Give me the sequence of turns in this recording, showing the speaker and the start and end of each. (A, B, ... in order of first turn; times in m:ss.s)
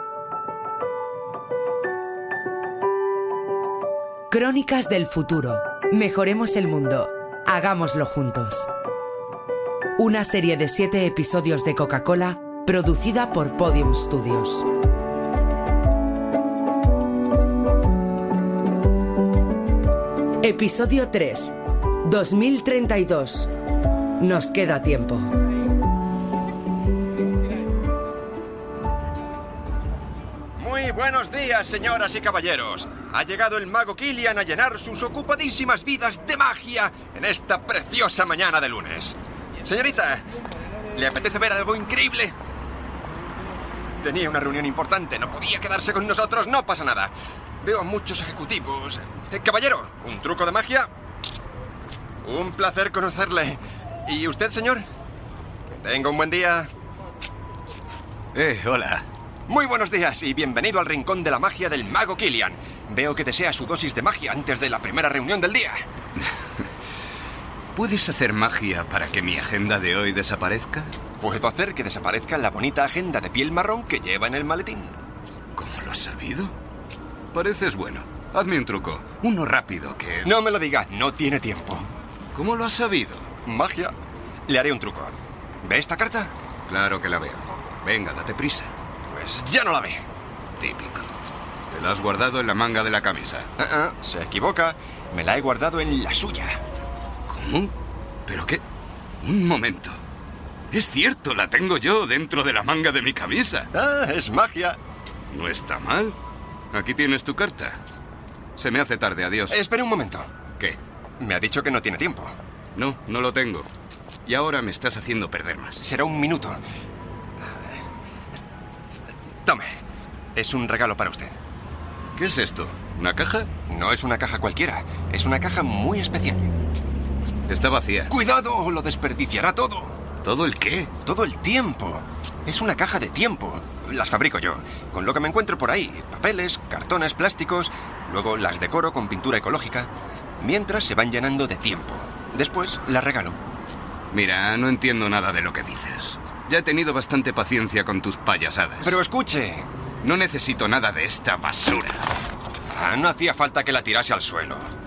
0:04.3-0:08.7 A
0:10.0-0:14.6 A
0:20.4-0:21.5 A
0:22.1-0:23.5 A
0:24.2-0:25.3 A
0:30.6-0:40.2 B
0:40.9-0:42.4 B
0:44.0-0:50.9 B
0:52.2-0:54.9 B
0:55.7-0:56.7 B
0:58.4-0:59.1 C
0:59.5-1:05.8 B
1:07.8-1:10.9 C
1:11.2-1:15.0 B
1:15.6-1:16.5 C
1:17.3-1:20.3 C
1:20.2-1:21.9 B
1:22.4-1:23.3 C
1:23.5-1:23.9 B
1:24.5-1:26.3 B
1:26.7-1:28.7 C
1:29.1-1:30.0 B
1:30.6-1:31.1 C
1:31.7-1:33.5 C
1:33.6-1:36.6 B
1:37.3-1:37.7 C
1:38.3-1:38.6 C
1:39.2-1:40.0 C
1:40.7-1:43.7 C
1:43.7-1:44.8 B
1:45.3-1:46.2 C
1:46.7-1:47.8 C
1:48.6-1:49.6 C
1:49.5-1:50.3 B
1:51.2-1:52.4 B
1:52.8-1:53.7 C
1:54.3-1:55.8 C
1:55.8-1:56.6 B
1:57.4-1:57.8 B
1:59.4-1:59.8 B
2:00.4-2:01.4 B
2:02.2-2:03.5 C
2:03.7-2:06.5 B
2:07.5-2:08.1 C
2:08.1-2:10.0 B
2:10.2-2:10.9 C
2:11.0-2:23.4 B
2:24.1-2:28.9 C
2:28.8-2:29.7 B
2:30.0-2:32.0 C
2:32.7-2:34.7 B